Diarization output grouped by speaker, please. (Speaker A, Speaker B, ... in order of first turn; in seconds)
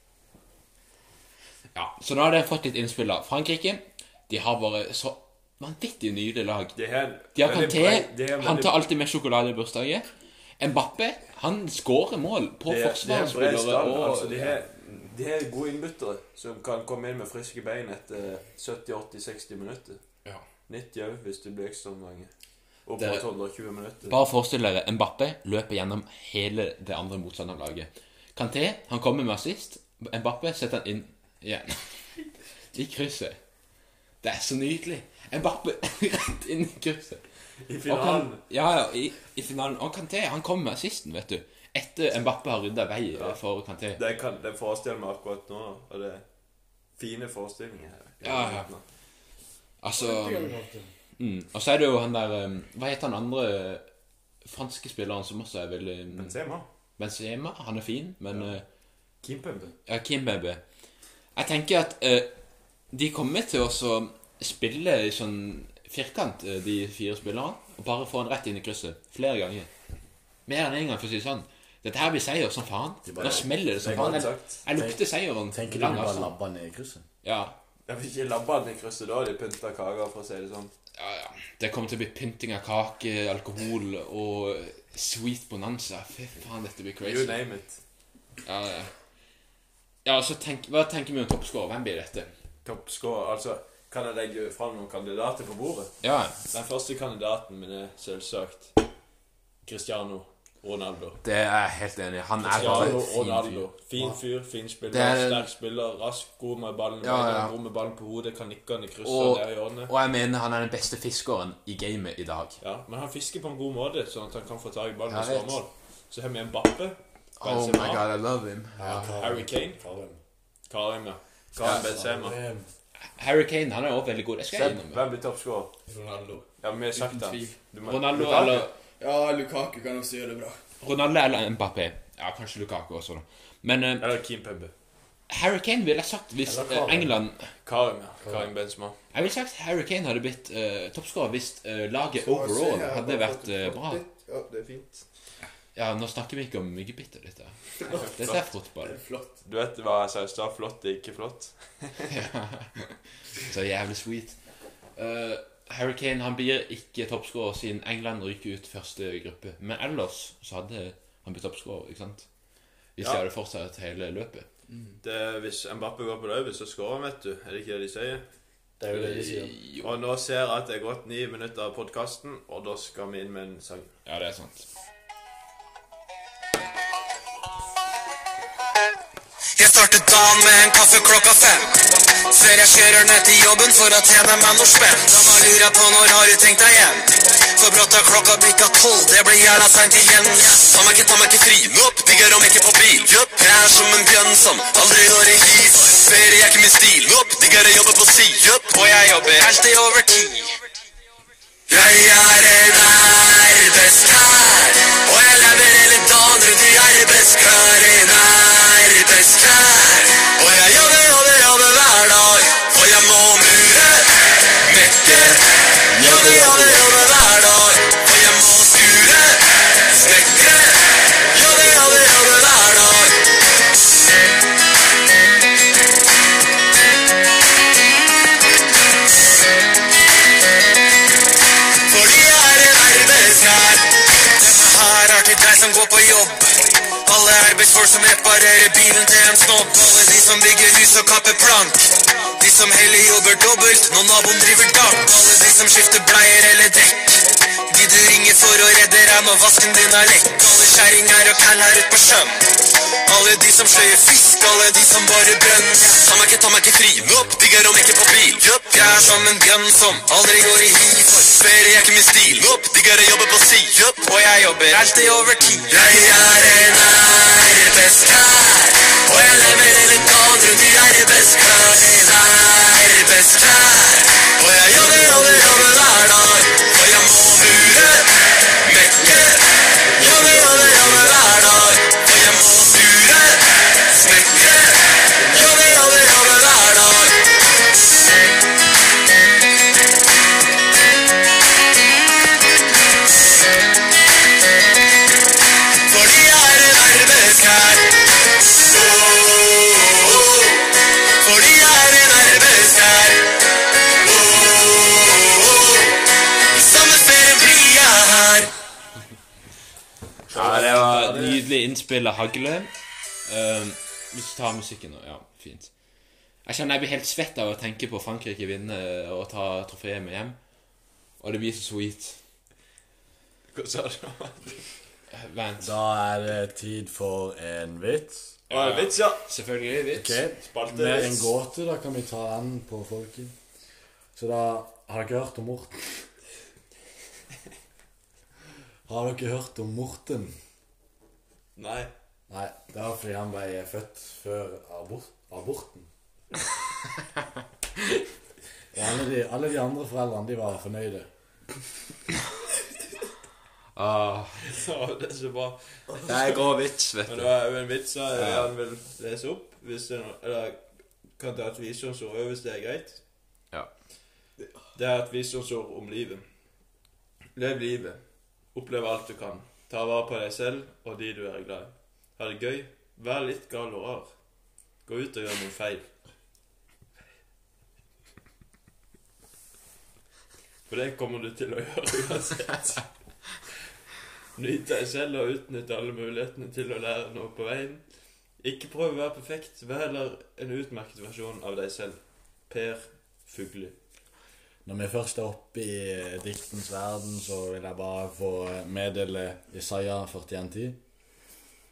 Speaker A: 1.7-6.7, 7.3-10.1, 10.6-14.6, 23.0-23.3, 24.1-32.0, 32.7-33.4, 34.2-37.2, 37.9-44.0, 48.2-48.7, 49.8-50.5, 51.2-53.8, 54.5-56.3, 57.0-58.6, 59.9-60.6, 61.4-62.3, 62.9-69.7, 70.5-76.3, 77.2-77.6, 81.0-87.4, 88.5-88.9, 90.0-92.3, 96.0-96.4, 101.2-103.7, 104.9-105.5, 107.0-107.5, 109.0-112.6, 115.1-115.6, 117.4-119.1, 123.1-125.0, 127.8-128.7, 130.8-134.1, 135.3-137.5, 139.1-144.0, 145.8-149.0, 152.1-152.7, 153.4-154.4, 155.0-162.3, 163.0-164.5, 168.9-170.0, 174.1-174.7, 264.7-265.7, 310.3-312.7, 313.3-315.7, 316.4-320.4, 321.2-322.2, 325.1-325.8, 328.5-330.2, 353.8-354.4, 356.0-357.3, 358.1-358.5
Speaker B: 6.8-8.7, 12.7-20.0, 20.7-22.3, 22.9-24.2, 37.6-38.4, 43.1-43.4, 44.0-46.2, 47.0-48.8, 56.1-56.7, 58.3-58.6, 59.2-59.8, 73.2-74.6, 77.9-80.7, 87.0-87.8, 92.7-95.9, 96.5-98.7, 99.6-101.2, 102.4-109.9, 112.6-118.1, 118.8-119.8, 120.7-122.4, 124.5-125.7, 126.6-128.7, 134.0-134.7, 137.6-139.0, 142.5-145.1, 147.9-148.5, 149.4-152.1, 163.0-163.3, 165.0-168.2, 169.8-173.9, 221.3-222.1, 310.3-311.5, 323.5-324.6, 328.5-329.3, 330.4-331.3, 341.6-341.9, 354.4-356.4, 357.1-360.6, 361.2-363.0, 364.8-366.2, 367.4-368.0, 368.5-374.1, 374.9-375.9, 380.7-382.9, 384.4-387.8, 388.4-393.8
Speaker C: 50.0-50.9, 73.0-77.0, 102.4-103.2, 118.8-120.2, 121.7-122.7, 136.4-137.2, 138.2-138.5, 168.8-169.6, 280.0-281.3, 325.6-328.4, 329.9-333.4, 334.1-336.0, 338.9-340.4, 342.3-345.9, 348.7-351.1, 394.6-400.8
Speaker D: 125.9-127.6, 129.0-130.6, 142.2-143.1, 148.8-149.3
Speaker E: 179.6-200.6, 201.7-215.4, 215.9-223.2, 231.9-252.5, 253.1-278.1, 278.6-279.4, 280.0-287.2, 295.9-297.9, 298.6-300.6, 301.2-303.3, 304.0-305.9, 306.5-308.5